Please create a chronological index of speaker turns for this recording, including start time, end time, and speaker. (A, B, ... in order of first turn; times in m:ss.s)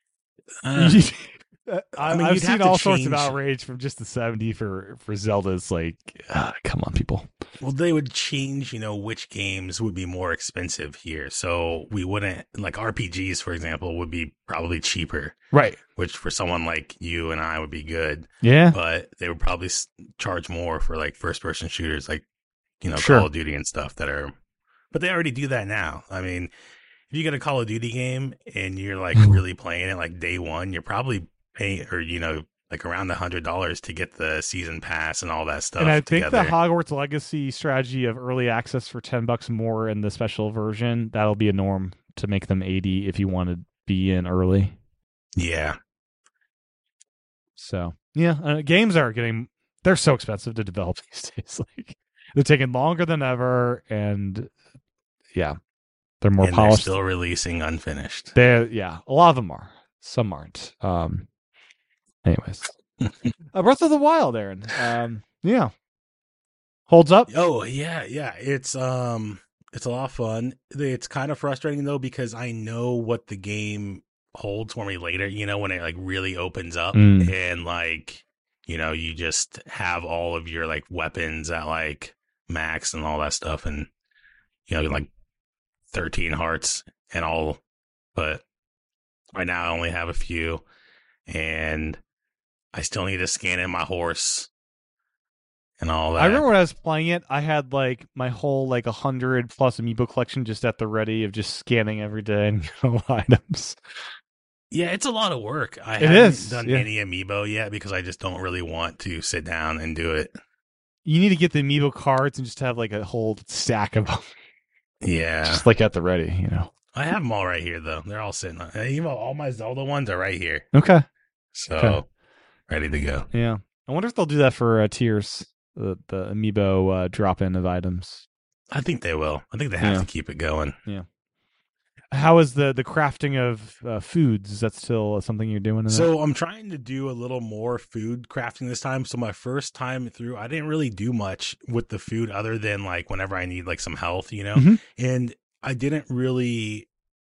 0:00.6-0:01.0 A
0:00.8-0:07.3 B
0:02.0-0:03.4 A
0:07.6-0:15.3 A
0:15.5-0:15.8 B
0:16.0-0:22.2 A
0:18.4-0:18.8 B
0:22.8-0:24.3 A
0:23.0-0:23.3 B
0:24.9-0:26.5 A
0:27.1-0:36.5 A
0:35.8-0:44.8 B
0:45.4-0:45.8 A
0:47.6-0:54.5 B
0:56.2-0:56.9 B
0:56.4-0:58.3 A
0:58.3-1:01.3 B
1:02.2-1:02.7 B
1:03.5-1:05.7 B
1:06.9-1:07.4 B
1:07.3-1:23.9 A
1:16.9-1:17.3 B
1:24.7-1:25.1 A
1:25.9-1:27.6 A
1:28.1-1:28.4 A
1:29.3-1:30.6 A
1:31.3-1:32.0 A
1:32.7-1:34.5 A
1:35.8-1:36.4 A
1:36.2-1:43.8 B
1:44.7-1:50.3 A
1:46.0-1:46.9 B
1:51.0-1:54.3 B
1:55.0-1:55.6 A
1:55.4-1:56.7 B
1:56.9-2:00.7 A
2:00.7-2:01.0 B
2:01.5-2:02.0 A
2:02.7-2:03.3 A
2:03.3-2:08.2 B
2:08.7-2:10.8 A
2:09.8-2:10.1 B
2:12.1-2:16.1 B
2:15.9-2:26.9 A
2:24.5-2:24.8 B